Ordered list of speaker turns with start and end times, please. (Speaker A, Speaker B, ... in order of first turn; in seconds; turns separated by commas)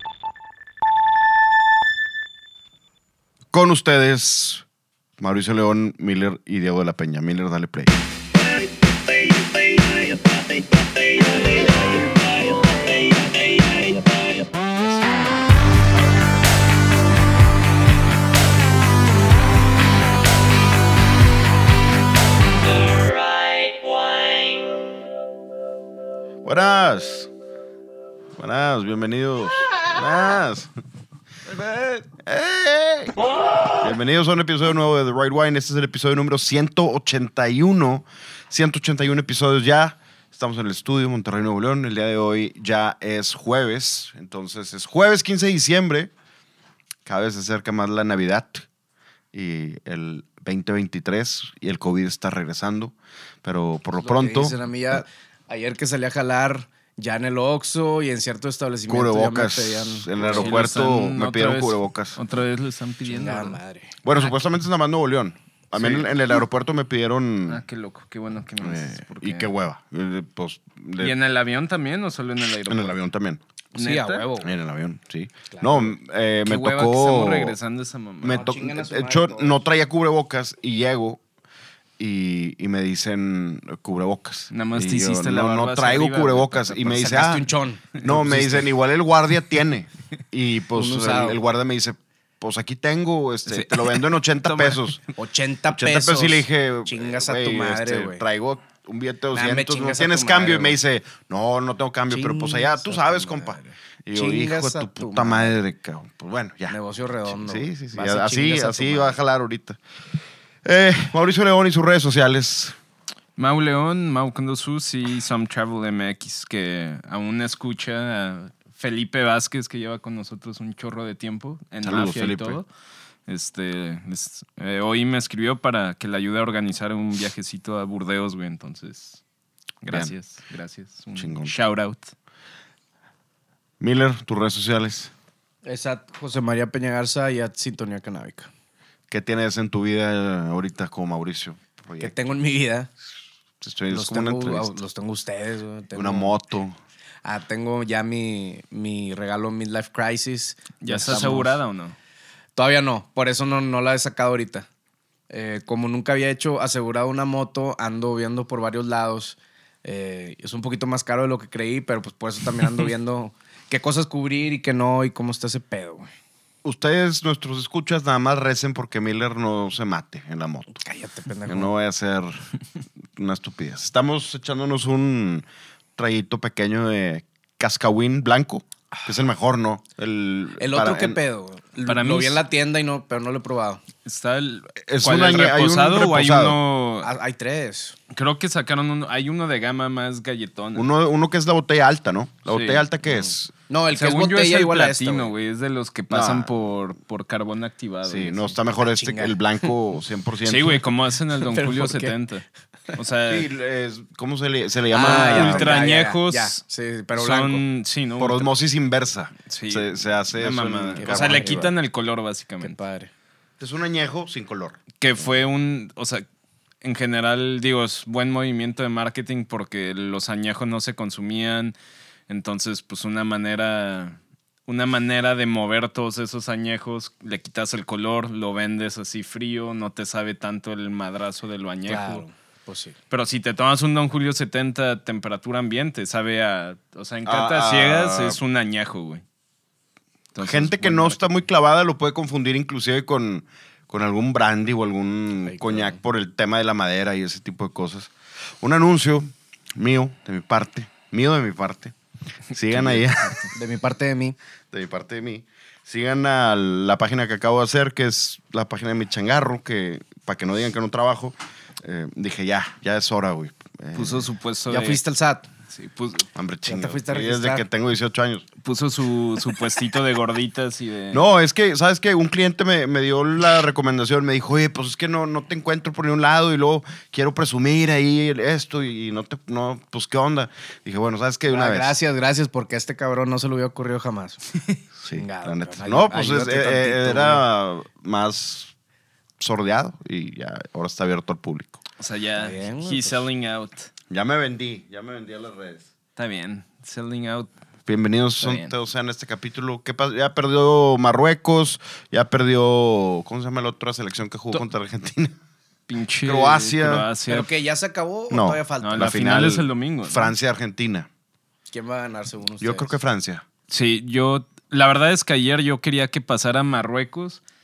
Speaker A: 3.5-4.6, Speaker A: 5.2-8.0, Speaker A: 26.4-27.3, Speaker A: 28.4-30.7, Speaker A: 31.5-33.2, Speaker A: 33.8-46.1, Speaker A: 47.0-48.7, Speaker A: 49.3-55.0, Speaker B: 54.0-60.6, Speaker A: 58.9-62.2, Speaker C: 60.2-63.6, Speaker B: 63.1-63.9, Speaker A: 64.0-67.6, Speaker C: 65.8-66.1, Speaker C: 67.5-69.5, Speaker A: 68.6-71.1, Speaker C: 71.0-73.0, Speaker A: 72.7-73.4, Speaker B: 73.8-74.5, Speaker C: 73.8-74.2, Speaker A: 74.4-77.6, Speaker B: 75.5-75.9, Speaker C: 76.4-78.5, Speaker A: 78.2-81.2, Speaker B: 78.3-79.6, Speaker A: 82.0-95.0, Speaker C: 84.5-87.2, Speaker B: 86.9-88.7, Speaker B: 90.8-91.4, Speaker C: 93.5-94.8, Speaker B: 95.2-98.2, Speaker A: 95.7-109.8, Speaker B: 99.3-100.8, Speaker B: 102.1-105.5, Speaker B: 106.7-109.2, Speaker A: 110.6-112.8, Speaker C: 113.4-122.7, Speaker A: 121.8-122.6, Speaker C: 123.3-129.2, Speaker C: 129.8-132.1, Speaker A: 129.9-130.1, Speaker A: 131.2-131.5, Speaker A: 133.8-135.1, Speaker B: 135.7-138.5, Speaker A: 139.1-142.1, Speaker B: 142.0-142.9, Speaker A: 143.6-144.8, Speaker B: 143.9-146.3, Speaker A: 145.9-146.8, Speaker B: 147.2-151.6, Speaker C: 150.8-152.0, Speaker B: 152.6-154.7, Speaker B: 155.3-166.1, Speaker A: 166.7-170.8, Speaker B: 170.8-171.7, Speaker A: 171.5-172.4, Speaker A: 173.2-175.4, Speaker A: 176.0-181.2, Speaker B: 180.6-183.8, Speaker C: 181.8-182.4, Speaker C: 184.1-187.2, Speaker A: 184.8-186.6, Speaker B: 187.0-188.0, Speaker C: 188.1-190.9, Speaker A: 190.8-193.5, Speaker C: 192.5-192.9, Speaker B: 193.7-195.3, Speaker C: 193.9-198.6, Speaker A: 196.1-196.5, Speaker A: 198.0-200.8, Speaker B: 198.8-199.4, Speaker C: 200.4-203.5, Speaker B: 201.3-202.2, Speaker A: 203.3-205.8, Speaker B: 204.9-207.6, Speaker C: 204.9-206.6, Speaker C: 207.1-208.5, Speaker A: 208.2-211.7, Speaker C: 209.5-212.8, Speaker B: 210.9-211.7, Speaker B: 212.6-213.1, Speaker A: 213.6-214.8, Speaker C: 215.0-216.2, Speaker C: 216.8-221.8, Speaker C: 222.3-232.3, Speaker B: 231.9-233.0, Speaker C: 233.1-239.2, Speaker A: 237.2-238.4, Speaker C: 240.3-241.3, Speaker A: 240.4-251.9, Speaker B: 245.5-246.0, Speaker A: 252.5-253.4, Speaker B: 252.8-254.4, Speaker A: 254.7-264.3, Speaker C: 263.9-265.0, Speaker B: 264.7-265.5, Speaker C: 265.7-266.3, Speaker A: 266.4-268.5, Speaker B: 266.7-267.6, Speaker C: 268.6-271.3, Speaker A: 271.1-281.9, Speaker B: 281.5-287.4, Speaker A: 285.0-288.7, Speaker A: 289.4-291.8, Speaker C: 292.0-293.9, Speaker B: 292.4-293.2, Speaker A: 294.1-295.9, Speaker C: 296.2-297.5, Speaker A: 297.9-305.4, Speaker C: 298.4-298.7, Speaker C: 305.9-307.5, Speaker A: 306.2-307.1, Speaker B: 307.3-309.3, Speaker A: 308.3-311.1, Speaker C: 308.8-310.3, Speaker B: 311.7-312.9, Speaker A: 312.6-313.4, Speaker C: 313.7-317.4